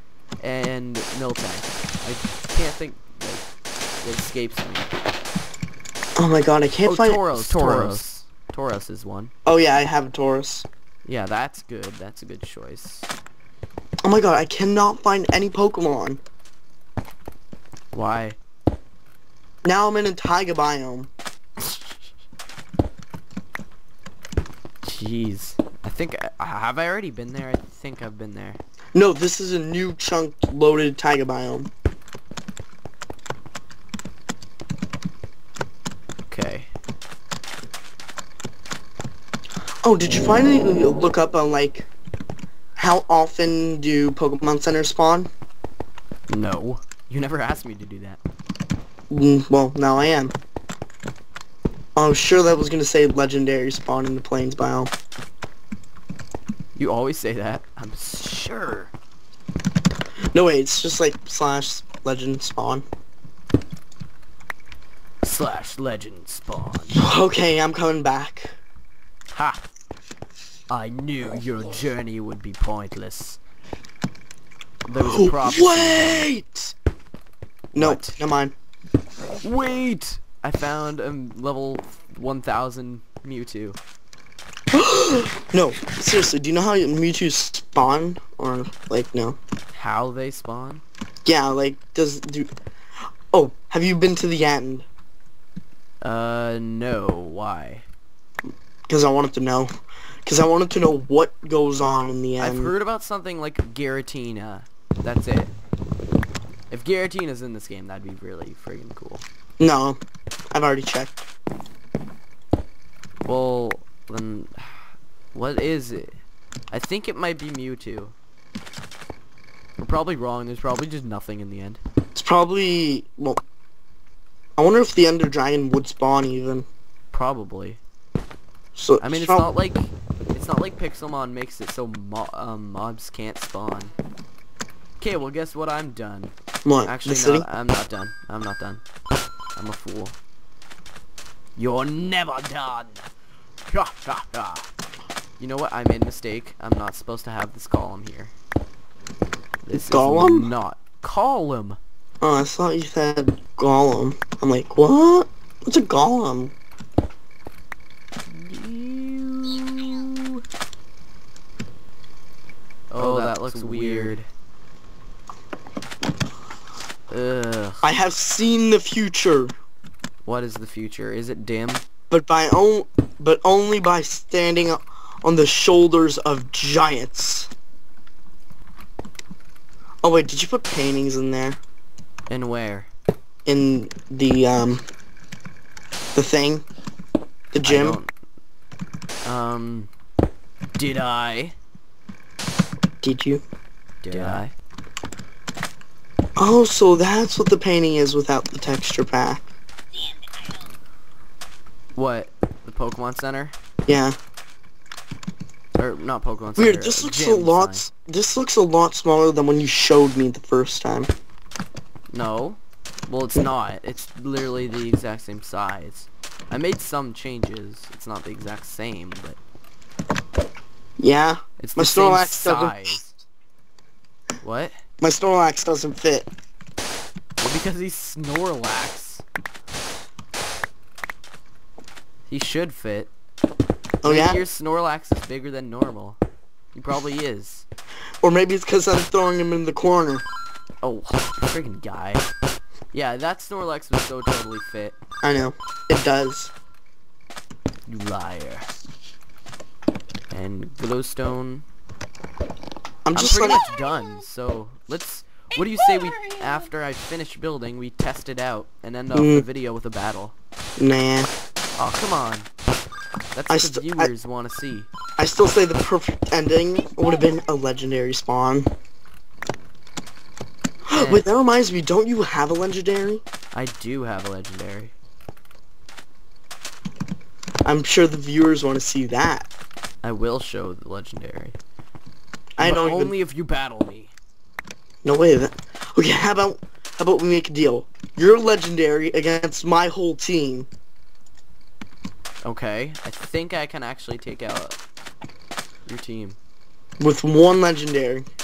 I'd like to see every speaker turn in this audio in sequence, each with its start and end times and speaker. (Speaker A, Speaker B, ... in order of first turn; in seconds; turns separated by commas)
Speaker A: 0.4-3.5, Speaker A: 4.0-4.9, Speaker B: 6.2-8.1, Speaker A: 6.8-9.3, Speaker B: 9.4-10.7, Speaker A: 11.0-13.1, Speaker B: 14.0-16.2, Speaker A: 17.9-18.4, Speaker B: 19.6-21.1, Speaker A: 21.6-21.9, Speaker A: 24.8-28.6, Speaker B: 28.9-31.7, Speaker A: 36.3-36.7, Speaker B: 39.8-41.9, Speaker B: 42.8-45.3, Speaker A: 46.3-48.2, Speaker B: 49.1-50.3, Speaker B: 52.0-54.9, Speaker A: 56.8-58.9, Speaker B: 60.3-62.8, Speaker A: 65.2-67.1, Speaker B: 66.9-68.5, Speaker A: 69.3-69.6, Speaker A: 70.7-73.4, Speaker A: 74.8-76.3, Speaker B: 74.9-76.7, Speaker A: 77.7-78.2, Speaker B: 77.7-78.5, Speaker A: 79.4-83.8, Speaker B: 84.7-89.4, Speaker A: 89.7-90.8, Speaker B: 91.2-92.5, Speaker B: 93.3-94.8, Speaker A: 96.0-97.8, Speaker B: 98.9-99.7, Speaker B: 100.2-102.7, Speaker A: 102.4-105.5, Speaker A: 106.7-109.2, Speaker B: 109.6-110.0, Speaker B: 110.5-111.3, Speaker A: 113.2-116.2, Speaker A: 116.7-118.1, Speaker A: 119.8-121.8, Speaker B: 122.1-123.4, Speaker B: 124.6-126.7, Speaker A: 127.1-127.8, Speaker B: 128.8-129.5, Speaker A: 129.0-133.9, Speaker A: 135.0-138.8, Speaker B: 136.6-137.4, Speaker A: 139.6-140.2, Speaker A: 141.6-143.1, Speaker A: 143.7-144.7, Speaker A: 145.4-148.3, Speaker A: 149.6-151.8, Speaker B: 149.9-150.5, Speaker B: 152.2-156.5, Speaker A: 158.2-160.4, Speaker A: 162.9-164.3, Speaker B: 163.0-164.2, Speaker A: 167.1-167.9, Speaker B: 167.8-169.5, Speaker A: 170.2-171.8, Speaker B: 172.1-177.5, Speaker B: 180.0-181.6, Speaker A: 182.3-182.9, Speaker B: 183.4-184.8, Speaker B: 186.1-186.6, Speaker B: 187.5-188.0, Speaker A: 187.6-188.1, Speaker A: 189.2-189.9, Speaker A: 190.8-191.5, Speaker B: 193.0-193.4, Speaker A: 194.0-194.5, Speaker B: 194.1-194.4, Speaker B: 196.4-199.5, Speaker A: 201.9-203.5, Speaker B: 203.9-204.2, Speaker A: 205.8-207.8, Speaker B: 206.6-211.1, Speaker A: 212.1-219.4, Speaker B: 221.0-222.9, Speaker A: 221.6-223.2, Speaker A: 224.4-224.8, Speaker B: 225.0-226.3, Speaker A: 227.4-229.2, Speaker A: 232.3-233.1, Speaker B: 234.0-234.4, Speaker A: 234.0-236.2, Speaker A: 236.7-237.7, Speaker B: 238.2-240.2, Speaker A: 240.8-242.3, Speaker A: 242.9-245.0, Speaker B: 245.2-246.5, Speaker A: 247.9-248.7, Speaker A: 250.3-251.7, Speaker B: 253.0-253.6, Speaker A: 253.2-260.3, Speaker B: 259.1-259.4, Speaker B: 260.8-261.3, Speaker A: 261.8-262.5, Speaker A: 263.3-264.9, Speaker B: 263.5-264.1, Speaker B: 265.2-268.7, Speaker B: 270.9-273.2, Speaker A: 270.9-271.3, Speaker A: 273.5-274.9, Speaker B: 277.6-279.5, Speaker A: 280.0-281.6, Speaker B: 282.6-283.1, Speaker A: 282.6-284.1, Speaker B: 285.0-290.7, Speaker A: 292.4-294.8, Speaker A: 295.9-296.4, Speaker B: 297.0-298.3